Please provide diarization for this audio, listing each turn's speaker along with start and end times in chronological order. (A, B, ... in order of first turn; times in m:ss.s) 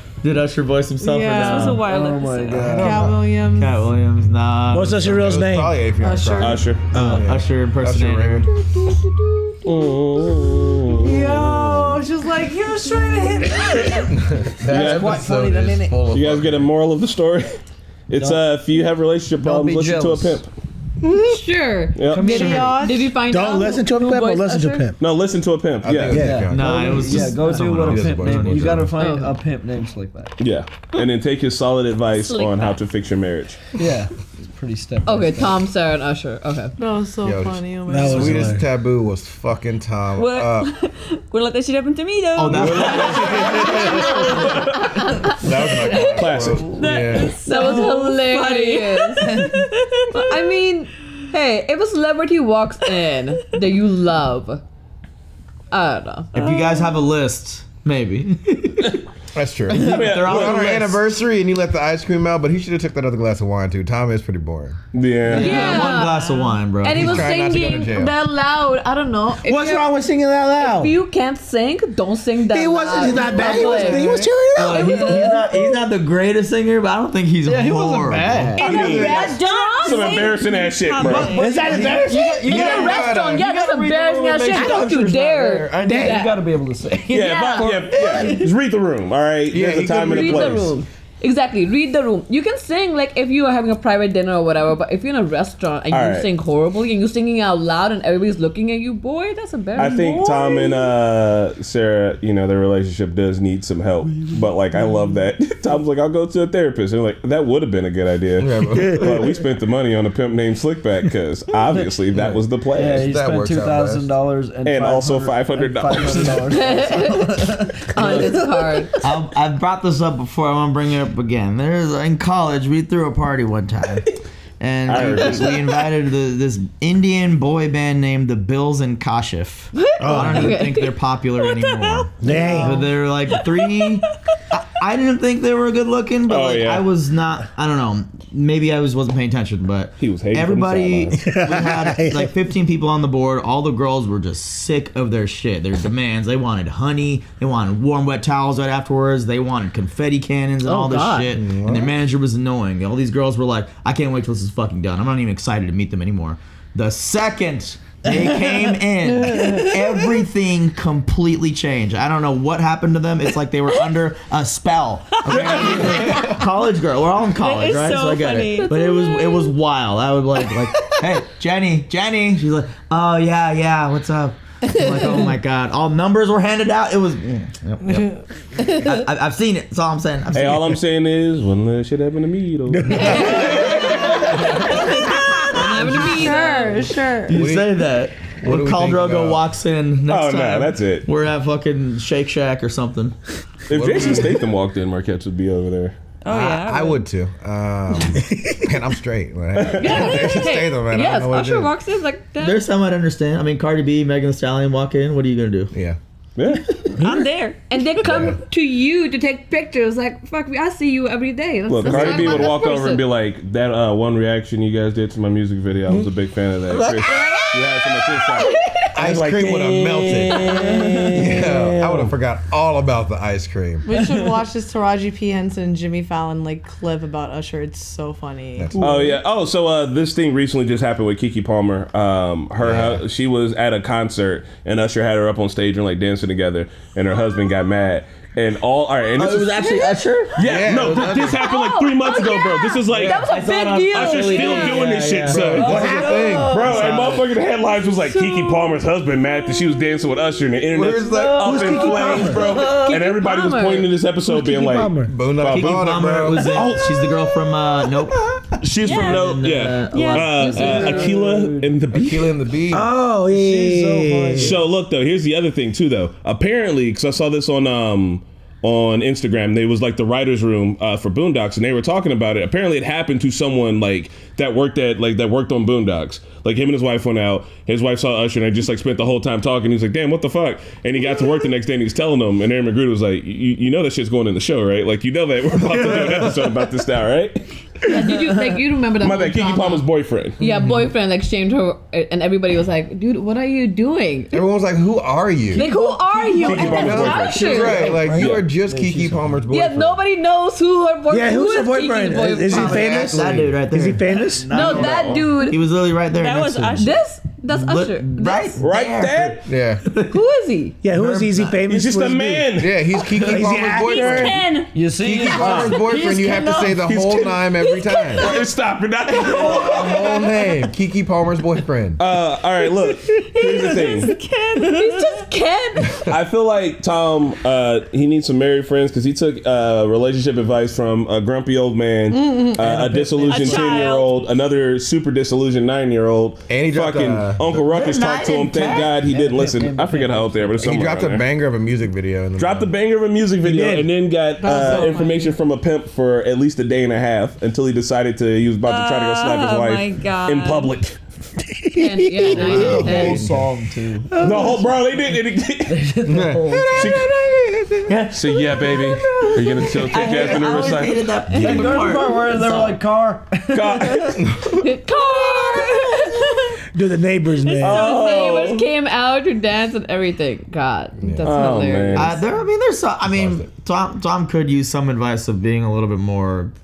0:00.2-0:01.8 A
0:01.0-0:01.6 B
0:01.4-0:02.8 C
0:01.8-0:03.1 D
0:02.5-0:03.2 E
0:02.7-0:03.9 B
0:03.5-0:05.3 A
0:04.7-0:05.8 F
0:05.0-0:08.5 E
0:06.0-0:06.6 B
0:06.4-0:06.9 G
0:06.9-0:08.5 A
0:09.6-0:11.9 G
0:11.0-0:14.2 B
0:14.1-0:16.7 E
0:14.7-0:15.2 G
0:14.7-0:16.1 D
0:16.0-0:20.5 G
0:18.2-0:18.8 D
0:19.4-0:20.4 D
0:21.0-0:24.9 H
0:22.0-0:22.5 G
0:22.1-0:23.0 D
0:22.3-0:22.7 A
0:22.4-0:22.8 B
0:23.2-0:25.0 F
0:25.0-0:26.3 G
0:25.8-0:28.9 E
0:26.1-0:26.5 F
0:26.2-0:30.4 D
0:26.5-0:28.7 A
0:29.0-0:29.4 H
0:30.4-0:33.7 G
0:32.2-0:32.8 C
0:33.8-0:35.7 D
0:35.0-0:36.7 H
0:36.8-0:38.4 B
0:37.2-0:40.7 E
0:37.9-0:38.7 F
0:40.2-0:44.7 C
0:42.4-0:43.4 A
0:42.6-0:43.5 G
0:42.6-0:43.7 E
0:43.8-0:46.0 H
0:45.3-0:47.4 E
0:46.2-0:46.7 G
0:46.6-0:50.4 C
0:47.5-0:49.5 H
0:50.1-0:54.6 H
0:55.7-0:56.3 H
0:56.3-0:59.0 A
0:56.4-0:57.0 C
0:59.4-1:04.8 E
0:59.7-1:01.0 A
0:59.7-1:00.9 G
1:04.9-1:05.9 G
1:05.2-1:07.4 A
1:05.3-1:10.0 H
1:06.9-1:08.1 E
1:09.4-1:10.9 A
1:10.6-1:15.7 H
1:12.5-1:15.2 F
1:13.4-1:13.8 A
1:14.5-1:18.6 A
1:14.8-1:15.7 D
1:17.4-1:18.8 D
1:18.6-1:21.9 C
1:18.6-1:20.3 H
1:18.6-1:21.4 G
1:21.2-1:28.5 D
1:21.4-1:22.2 F
1:22.4-1:25.4 E
1:22.4-1:26.4 H
1:25.8-1:26.2 F
1:27.1-1:28.3 H
1:27.1-1:30.7 G
1:29.5-1:30.7 E
1:29.9-1:40.8 H
1:35.9-1:36.3 G
1:39.8-1:53.1 G
1:48.4-1:49.3 E
1:48.7-1:49.3 F
1:52.1-1:52.4 E
1:52.8-1:58.8 D
1:52.9-1:54.1 E
1:54.6-1:56.5 G
1:56.5-1:57.4 H
1:57.9-1:58.9 H
1:58.0-1:58.4 G
1:59.0-2:04.1 A
2:04.6-3:00.8 A
2:04.8-2:05.8 G
2:09.7-2:11.0 H
2:10.0-2:10.6 F
2:11.5-2:12.6 C
2:12.2-2:12.8 F
2:12.3-2:12.8 H
2:16.3-2:16.9 G
2:20.0-2:21.3 G
2:21.2-2:22.3 F
2:30.6-2:31.3 H
2:31.3-2:31.9 E
2:45.4-2:45.8 G
2:45.9-2:46.3 C
2:47.4-2:49.4 C
2:57.8-2:58.2 B
3:00.3-3:03.8 G
3:02.7-3:03.2 F
3:02.9-3:06.9 H
3:05.0-3:05.4 C
3:06.1-3:07.4 B
3:07.3-3:13.2 A
3:07.3-3:07.7 E
3:08.4-3:09.4 E
3:10.1-3:11.1 G
3:13.7-3:16.0 G
3:13.7-3:14.4 E
3:16.2-3:17.1 C
3:16.3-3:21.7 E
3:18.2-3:18.6 F
3:19.6-3:20.3 G
3:19.8-3:22.6 H
3:22.4-3:25.7 A
3:25.7-3:26.0 E
3:26.4-3:26.7 G
3:27.0-3:27.6 C
3:27.0-3:27.3 F
3:27.7-3:33.0 H
3:28.0-3:28.4 E
3:31.7-3:39.5 G
3:36.7-3:37.4 A
3:39.0-3:40.6 E
3:39.0-3:40.2 A
3:39.6-3:42.1 D
3:40.3-3:41.0 H
3:41.1-3:43.9 E
3:43.9-3:48.8 B
3:44.0-3:44.3 D
3:48.6-3:49.1 E
3:48.8-3:59.8 G
3:52.6-3:53.0 E
3:59.2-4:00.8 A
4:00.3-4:17.0 G
4:00.4-4:01.5 E
4:01.2-4:04.9 H
4:03.2-4:07.2 A
4:05.3-4:07.2 E
4:05.6-4:06.4 H
4:06.6-4:07.1 D
4:08.1-4:08.7 H
4:10.7-4:11.9 E
4:11.4-4:12.6 D
4:11.7-4:12.6 F
4:12.2-4:14.0 H
4:14.4-4:15.2 F
4:15.0-4:16.7 E
4:15.4-4:18.3 A
4:18.6-4:22.3 G
4:18.8-4:19.2 C
4:18.9-4:21.0 A
4:19.9-4:20.9 C
4:20.4-4:21.7 D
4:21.9-4:22.9 E
4:22.7-4:24.6 F
4:23.3-4:24.7 D
4:24.4-4:48.0 G
4:45.7-4:46.4 E
4:47.9-4:49.9 H
4:49.0-4:50.4 G
4:50.4-4:54.4 H
4:54.3-4:55.6 E
4:55.5-4:58.1 H
4:55.6-4:56.9 C
4:56.4-4:58.5 G
4:56.4-5:00.0 E
4:57.5-4:59.4 D
4:59.5-5:03.0 H
5:01.1-5:04.6 F
5:02.4-5:03.5 E
5:02.5-5:06.9 A
5:04.2-5:05.4 D
5:04.5-5:05.6 H
5:06.2-5:07.0 C
5:06.8-5:08.6 H
5:07.5-5:10.2 A
5:08.6-5:09.4 G
5:09.5-5:09.8 E
5:10.1-5:10.8 H
5:10.8-5:14.4 F
5:10.9-5:11.6 A
5:11.6-5:12.9 G
5:12.6-5:14.4 E
5:13.1-5:13.4 D
5:13.8-5:16.2 C
5:13.9-5:14.3 G
5:14.7-5:16.9 D
5:15.0-5:18.4 E
5:15.3-5:15.8 G
5:16.8-5:17.5 G
5:17.6-5:18.1 C
5:18.1-5:20.0 G
5:19.3-5:20.1 D
5:19.4-5:22.0 E
5:22.0-5:24.1 G
5:23.2-5:25.2 C
5:24.6-5:25.9 H
5:26.1-5:41.3 G
5:32.2-5:32.5 B
5:32.7-5:33.2 D
5:33.2-5:34.4 C
5:36.5-5:37.6 E
5:37.6-5:39.0 A
5:39.0-5:40.8 D
5:40.6-5:42.7 E
5:42.4-5:51.0 G
5:43.4-5:43.9 F
5:44.4-5:45.4 B
5:48.6-5:50.8 C
5:51.7-5:52.3 F
5:51.8-5:53.3 H
5:52.3-5:53.4 A
5:52.3-5:54.5 D
5:52.4-5:52.9 G
5:54.2-5:55.9 G
5:55.7-5:57.0 D
5:56.1-5:57.7 E
5:56.7-5:57.1 G
5:57.9-5:58.6 A
5:58.1-6:01.8 G
5:59.4-6:00.3 D
5:59.6-6:02.8 A
6:01.3-6:01.9 H
6:01.4-6:04.2 D
6:03.5-6:04.4 G
6:04.5-6:06.3 H
6:06.7-6:07.9 F
6:07.4-6:12.2 H
6:07.6-6:08.7 G
6:11.0-6:11.3 E
6:11.2-6:12.2 G
6:11.9-6:16.5 A
6:13.0-6:13.5 E